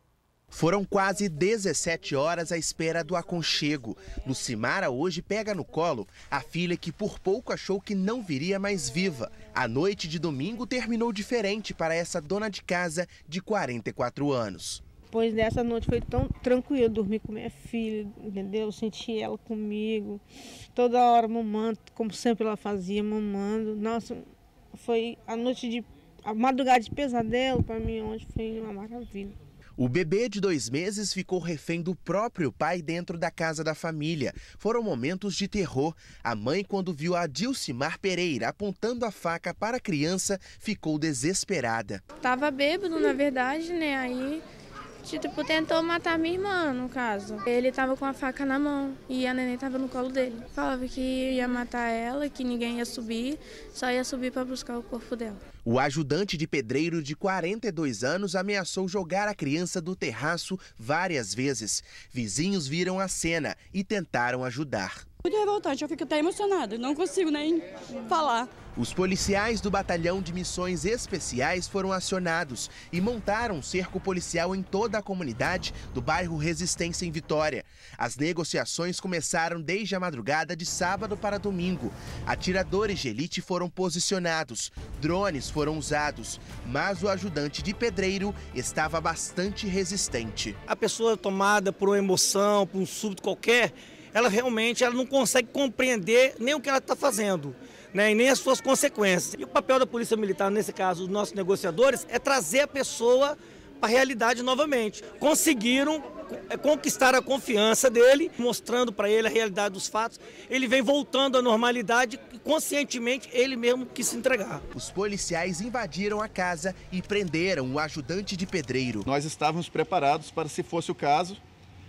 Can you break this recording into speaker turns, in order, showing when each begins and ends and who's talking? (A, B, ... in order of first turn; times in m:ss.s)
0:00.5-0:14.8 A
0:15.1-0:20.2 B
0:20.7-0:24.2 B
0:24.7-0:29.3 B
0:29.8-0:42.0 A
0:42.2-0:44.4 C
0:45.0-0:55.4 C
0:55.6-1:05.0 A
1:05.2-1:08.5 D
1:08.8-1:30.6 A
1:30.7-1:54.6 E
1:54.7-1:59.1 A
1:59.1-2:01.4 F